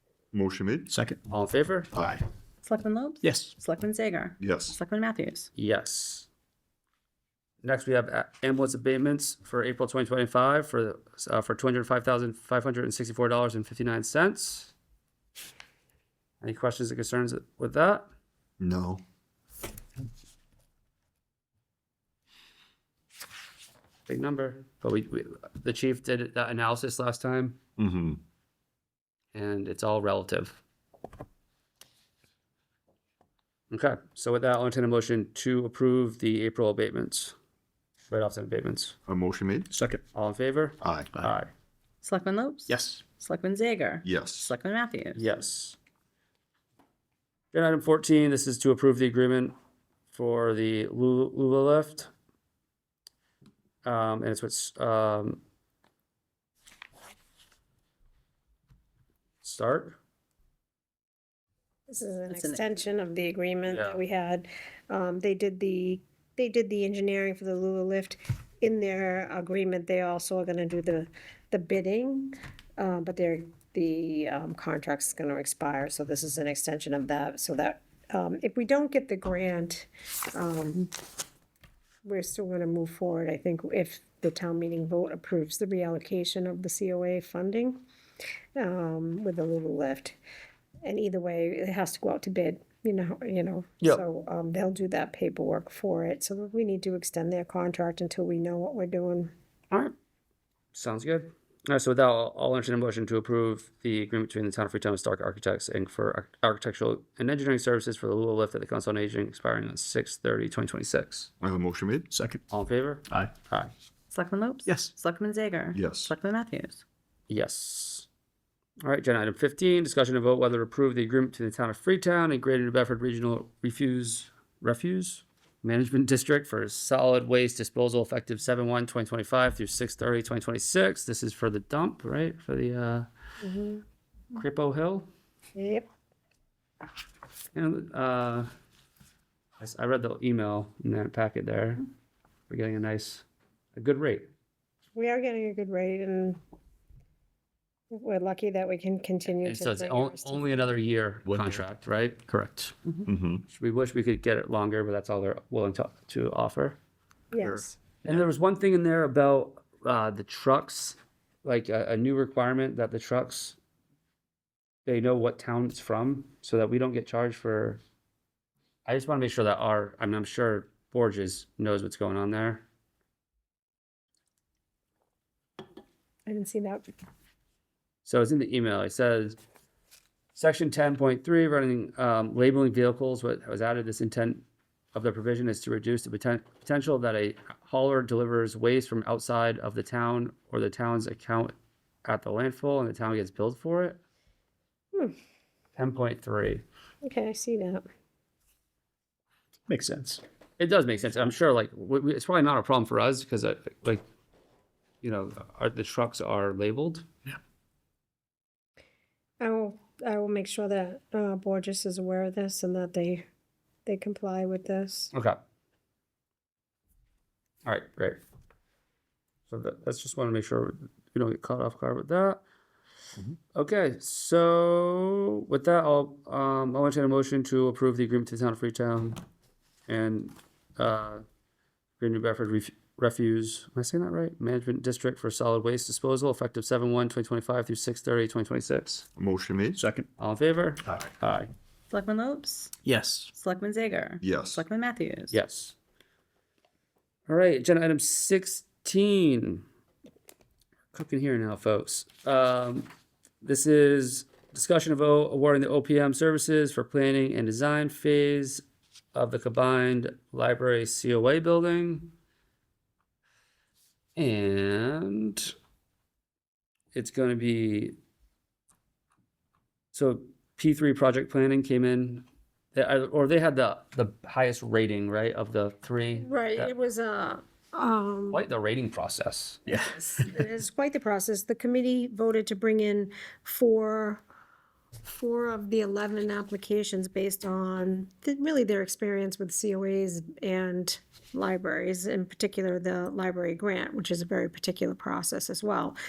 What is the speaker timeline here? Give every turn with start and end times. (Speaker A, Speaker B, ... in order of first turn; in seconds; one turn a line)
Speaker A: 0.3-0.9
Speaker B: 0.9-1.2
Speaker C: 1.3-1.9
Speaker B: 1.9-2.2
Speaker D: 2.6-5.5
Speaker B: 3.2-3.5
Speaker A: 4.4-4.8
Speaker C: 5.5-6.3
Speaker C: 7.6-14.7
Speaker C: 16.4-18.1
Speaker A: 18.6-19.0
Speaker C: 24.1-27.6
Speaker A: 27.8-28.2
Speaker C: 29.3-30.6
Speaker C: 33.7-37.3
Speaker C: 38.1-39.0
Speaker A: 39.1-39.7
Speaker B: 39.7-40.0
Speaker C: 40.1-41.5
Speaker A: 40.8-41.1
Speaker D: 42.0-45.3
Speaker B: 42.7-43.0
Speaker A: 44.0-44.5
Speaker C: 45.1-45.8
Speaker C: 47.5-49.5
Speaker C: 50.1-52.1
Speaker C: 53.8-55.4
Speaker C: 59.4-60.0
Speaker E: 61.9-80.9
Speaker D: 62.3-62.6
Speaker C: 63.7-64.0
Speaker E: 82.0-87.8
Speaker E: 88.5-90.2
Speaker E: 90.8-99.3
Speaker C: 100.7-111.3
Speaker A: 111.4-112.1
Speaker B: 112.1-112.4
Speaker C: 112.5-113.7
Speaker D: 114.1-116.8
Speaker B: 114.7-114.9
Speaker A: 115.7-116.1
Speaker C: 117.3-118.1
Speaker C: 118.8-133.1
Speaker E: 133.4-133.8
Speaker C: 134.3-135.1
Speaker E: 135.6-135.9
Speaker C: 137.5-138.5
Speaker C: 139.6-141.9
Speaker C: 142.5-144.3
Speaker E: 144.9-146.4
Speaker E: 147.9-150.6
Speaker C: 149.4-152.3
Speaker A: 151.3-151.6
Speaker B: 152.3-152.7
Speaker A: 153.1-153.4
Speaker C: 153.5-156.8
Speaker E: 157.3-157.8
Speaker C: 157.5-163.6
Speaker C: 164.8-167.8
Speaker C: 168.8-172.6
Speaker E: 176.3-176.9
Speaker C: 178.0-179.4
Speaker C: 180.3-191.5
Speaker C: 192.0-194.0
Speaker C: 195.8-196.6
Speaker E: 197.0-197.8
Speaker B: 199.7-200.2
Speaker C: 200.6-204.0
Speaker C: 205.0-207.0
Speaker E: 209.4-213.2
Speaker E: 213.8-215.1
Speaker C: 215.1-215.4
Speaker C: 217.6-218.2
Speaker C: 219.5-222.4
Speaker C: 223.5-229.2
Speaker C: 229.9-231.2
Speaker C: 232.0-239.1
Speaker A: 239.2-239.8
Speaker B: 239.7-240.1
Speaker C: 240.2-241.5
Speaker D: 241.9-242.7
Speaker B: 242.8-243.3
Speaker D: 243.3-245.4
Speaker A: 244.2-244.6
Speaker C: 245.3-245.7
Speaker C: 247.3-249.6
Speaker C: 250.9-252.9
Speaker C: 253.4-262.1
Speaker C: 264.1-265.5
Speaker C: 266.9-267.9
Speaker C: 269.9-276.7
Speaker E: 276.2-278.4
Speaker C: 278.3-279.6
Speaker B: 279.7-280.1
Speaker E: 279.7-284.2
Speaker E: 285.0-295.9